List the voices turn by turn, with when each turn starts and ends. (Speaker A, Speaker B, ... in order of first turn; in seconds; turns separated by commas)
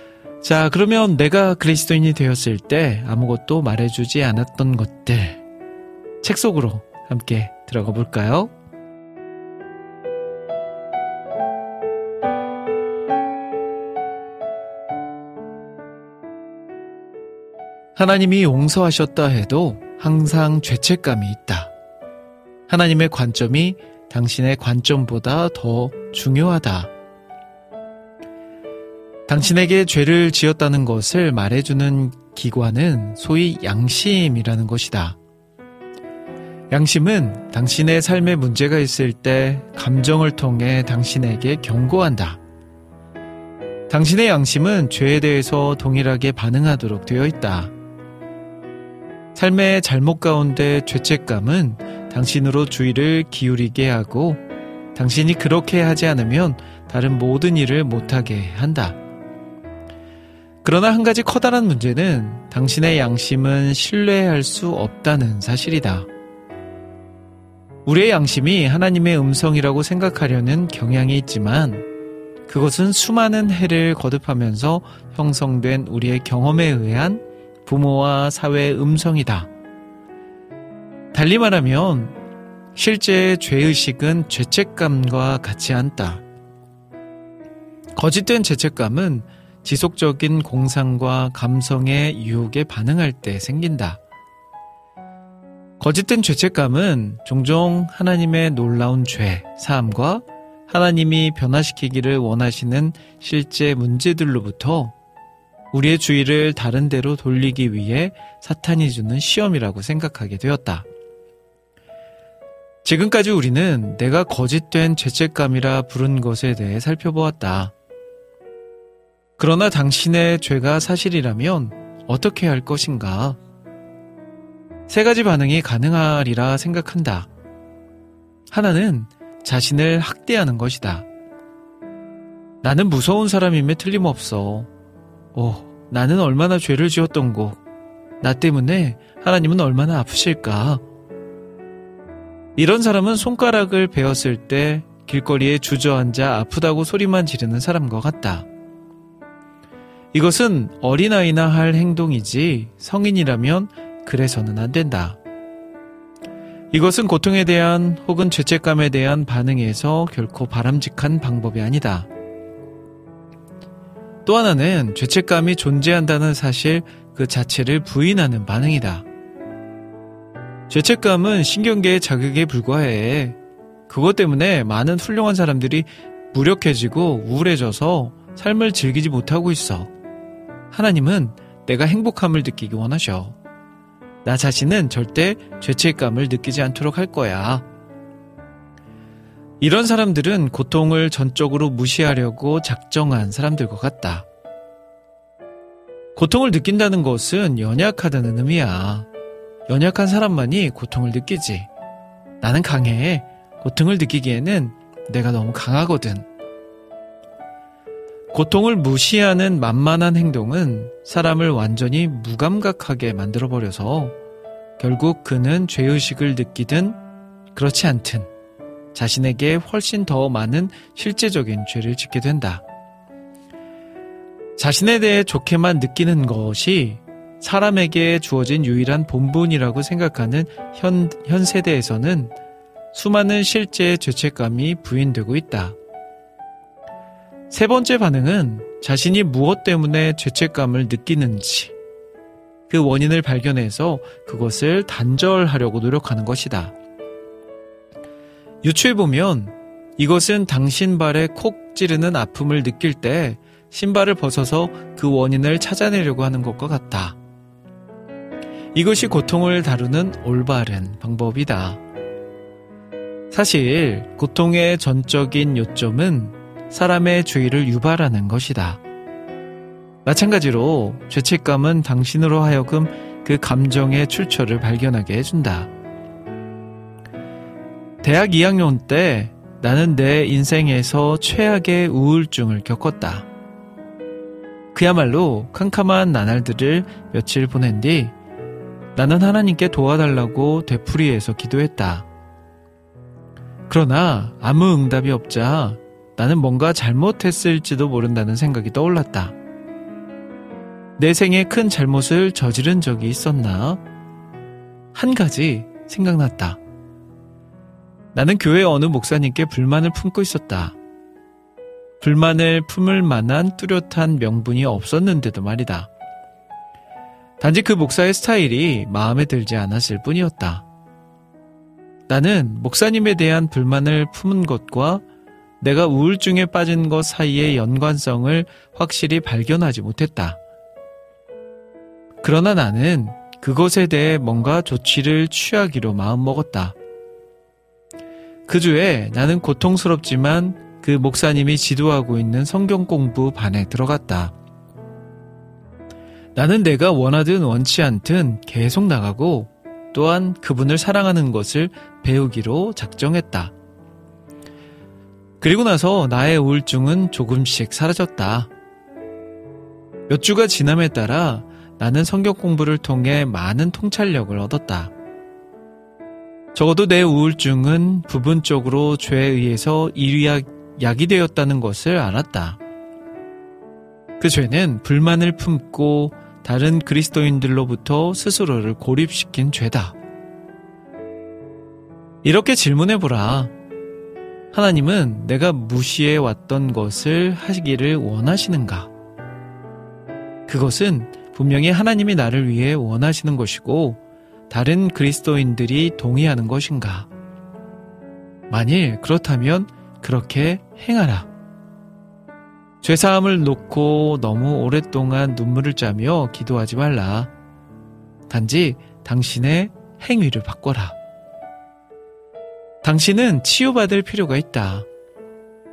Speaker A: 0.4-5.4, Speaker A: 6.2-8.5, Speaker A: 18.0-21.7, Speaker A: 22.7-26.9, Speaker A: 29.3-35.2, Speaker A: 36.7-42.4, Speaker A: 43.9-47.7, Speaker A: 49.4-54.4, Speaker A: 55.0-59.0, Speaker A: 60.6-66.1, Speaker A: 67.9-71.9, Speaker A: 72.5-79.5, Speaker A: 81.1-82.2, Speaker A: 82.8-86.2, Speaker A: 88.0-94.0, Speaker A: 95.8-104.9, Speaker A: 105.7-110.9, Speaker A: 112.8-117.7, Speaker A: 119.4-123.4, Speaker A: 124.9-127.3, Speaker A: 128.5-131.1, Speaker A: 132.6-134.7, Speaker A: 135.3-137.6, Speaker A: 138.2-140.8, Speaker A: 142.6-148.5, Speaker A: 150.1-155.2, Speaker A: 156.7-162.1, Speaker A: 164.3-169.1, Speaker A: 170.7-173.4, Speaker A: 173.9-179.9, Speaker A: 180.7-183.4, Speaker A: 184.2-187.7, Speaker A: 189.6-194.3, Speaker A: 196.2-199.1, Speaker A: 199.7-201.7, Speaker A: 202.4-206.3, Speaker A: 208.3-214.2, Speaker A: 214.8-217.0, Speaker A: 217.6-218.3, Speaker A: 218.9-222.6, Speaker A: 224.6-232.3, Speaker A: 232.9-235.8, Speaker A: 237.5-241.7, Speaker A: 242.7-246.7, Speaker A: 248.6-257.2, Speaker A: 258.8-261.8, Speaker A: 263.3-268.8, Speaker A: 270.1-275.7, Speaker A: 278.0-283.3, Speaker A: 284.7-288.1, Speaker A: 289.0-292.1, Speaker A: 293.7-299.4, Speaker A: 301.0-303.8, Speaker A: 304.9-306.6, Speaker A: 308.1-310.8, Speaker A: 312.0-315.9, Speaker A: 317.4-320.6, Speaker A: 322.1-325.0, Speaker A: 325.6-330.4, Speaker A: 332.2-336.8, Speaker A: 338.5-344.3, Speaker A: 346.4-353.5, Speaker A: 355.4-358.5, Speaker A: 360.1-364.9, Speaker A: 366.5-372.6, Speaker A: 374.2-380.0, Speaker A: 382.2-383.5, Speaker A: 384.5-388.9, Speaker A: 390.5-397.1, Speaker A: 398.5-401.3, Speaker A: 402.8-407.3, Speaker A: 408.3-411.0, Speaker A: 412.8-414.9